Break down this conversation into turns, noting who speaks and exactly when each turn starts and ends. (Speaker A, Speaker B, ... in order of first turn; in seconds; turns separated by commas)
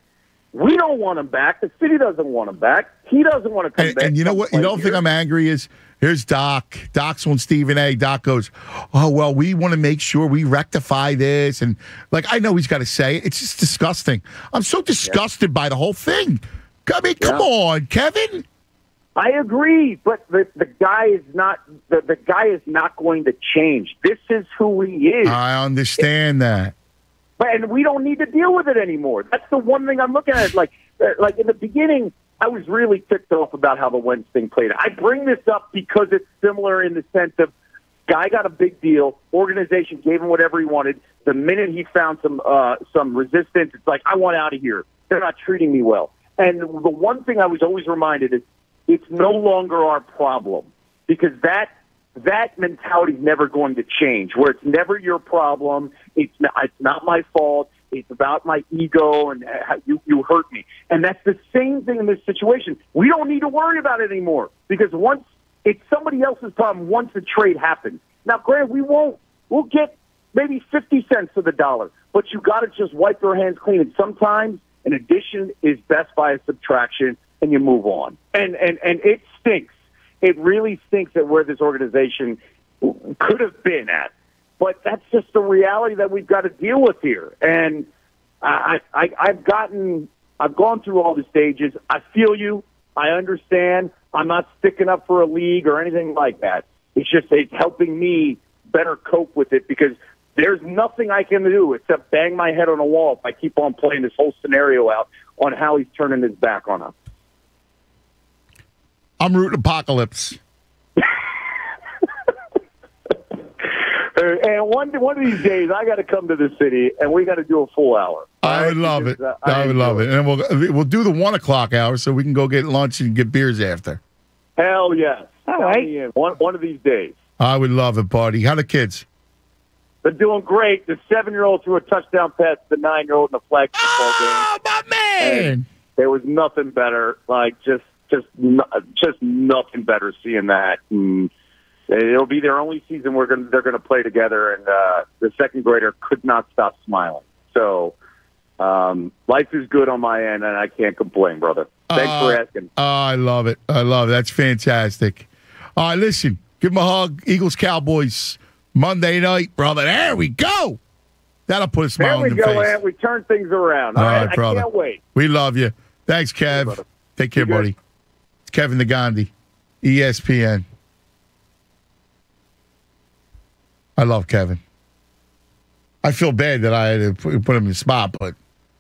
Speaker A: 0.5-5.0, Speaker B: 3.8-18.4, Speaker A: 17.2-17.4, Speaker A: 19.1-25.4, Speaker B: 25.2-26.7, Speaker A: 27.4-37.5, Speaker A: 38.1-87.9, Speaker A: 88.4-106.9, Speaker B: 109.2-110.4, Speaker A: 111.0-111.6, Speaker A: 113.6-120.0, Speaker B: 118.4-124.0, Speaker A: 124.6-127.2, Speaker B: 127.4-129.0, Speaker A: 130.0-134.5, Speaker B: 133.8-135.6, Speaker A: 135.2-141.3, Speaker A: 141.9-147.9, Speaker A: 148.6-152.7, Speaker B: 151.9-160.8, Speaker B: 161.5-162.8, Speaker A: 162.0-165.0, Speaker B: 163.9-167.7, Speaker A: 166.5-166.8, Speaker A: 167.3-167.7, Speaker B: 168.4-169.3, Speaker B: 169.8-170.6, Speaker B: 174.0-174.6, Speaker B: 176.0-178.3